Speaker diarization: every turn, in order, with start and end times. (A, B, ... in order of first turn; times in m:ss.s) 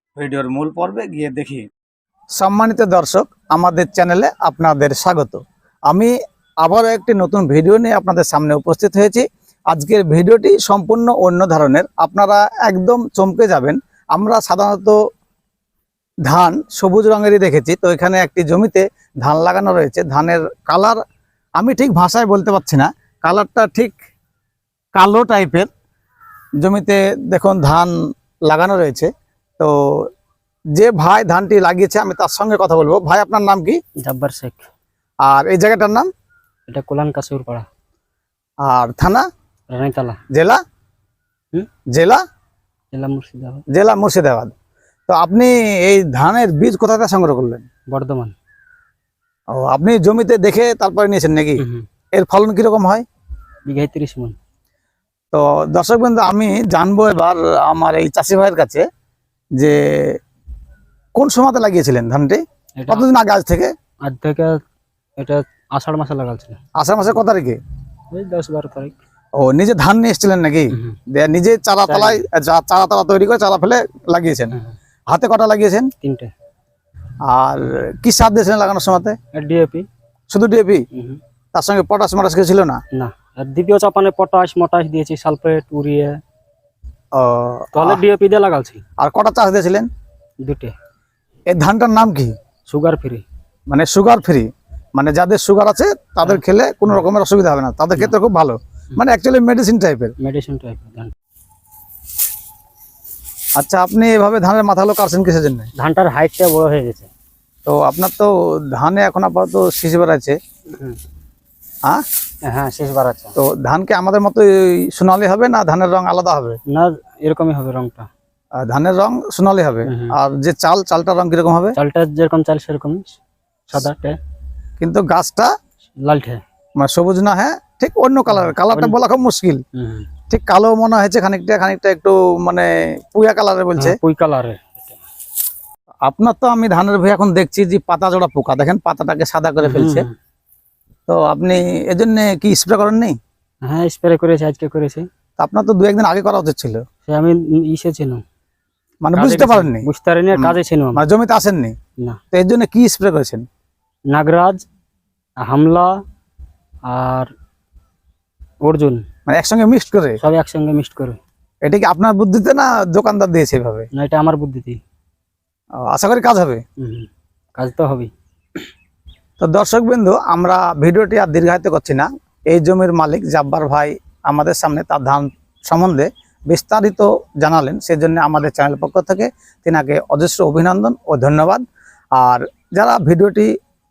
0:00.2-0:01.6 A
0:02.4-0:06.1 A
0:06.6-0:15.0 A
0:16.2-0:21.0 A
0:21.6-0:23.9 A
0:24.9-0:25.7 A
0:26.6-0:27.9 A
0:28.5-0:30.1 A
0:30.8-0:33.8 A
0:34.0-0:34.7 B
0:35.2-0:36.1 A
0:36.7-0:37.7 B
0:38.6-0:39.2 A
0:39.7-0:40.2 B
0:40.3-0:40.6 A
0:41.9-0:42.2 A
0:42.9-0:43.6 B
0:43.7-0:44.5 A
0:45.1-0:47.6 A
0:47.9-0:48.3 B
0:49.5-0:51.6 A
0:51.6-0:51.8 B
0:52.2-0:53.0 A
0:53.7-0:54.4 B
0:55.3-0:58.8 A
0:59.6-1:00.2 A
1:01.1-1:03.7 A
1:02.8-1:03.0 B
1:04.0-1:04.6 B
1:05.2-1:06.6 B
1:06.8-1:07.6 A
1:08.1-1:08.9 B
1:09.4-1:14.6 A
1:11.9-1:12.2 B
1:15.1-1:15.9 A
1:16.0-1:16.3 B
1:17.2-1:19.2 A
1:19.3-1:19.9 B
1:20.3-1:20.8 A
1:20.9-1:21.2 B
1:21.5-1:22.8 A
1:22.9-1:26.2 B
1:27.1-1:28.0 A
1:27.7-1:28.8 B
1:29.0-1:29.9 A
1:30.4-1:30.7 B
1:31.5-1:32.3 A
1:32.7-1:33.2 B
1:33.7-1:40.1 A
1:36.2-1:37.0 B
1:40.2-1:41.1 B
1:43.6-1:45.7 A
1:45.7-1:47.1 B
1:47.6-1:50.4 A
1:52.4-1:53.3 B
1:53.4-1:56.6 A
1:56.7-1:58.1 B
1:58.6-2:01.8 A
1:59.8-2:00.1 B
2:01.8-2:03.2 B
2:03.7-2:04.2 B
2:04.8-2:05.5 A
2:06.0-2:06.4 B
2:06.8-2:09.6 A
2:08.3-2:08.9 B
2:09.8-2:10.0 B
2:10.3-2:14.0 A
2:13.8-2:15.0 B
2:16.1-2:20.0 A
2:19.6-2:20.1 B
2:21.1-2:23.2 A
2:23.6-2:25.1 B
2:25.4-2:26.8 A
2:27.1-2:28.2 B
2:29.0-2:31.7 A
2:29.2-2:31.0 B
2:32.3-2:33.4 A
2:34.1-2:34.6 B
2:35.4-2:36.0 B
2:36.9-2:37.3 B
2:38.6-2:39.0 B
2:39.3-2:40.2 A
2:40.2-2:41.2 B
2:41.6-2:43.9 A
2:43.9-2:44.8 B
2:45.9-2:46.6 A
2:46.8-2:48.1 B
2:49.4-3:01.6 A
3:02.2-3:03.5 A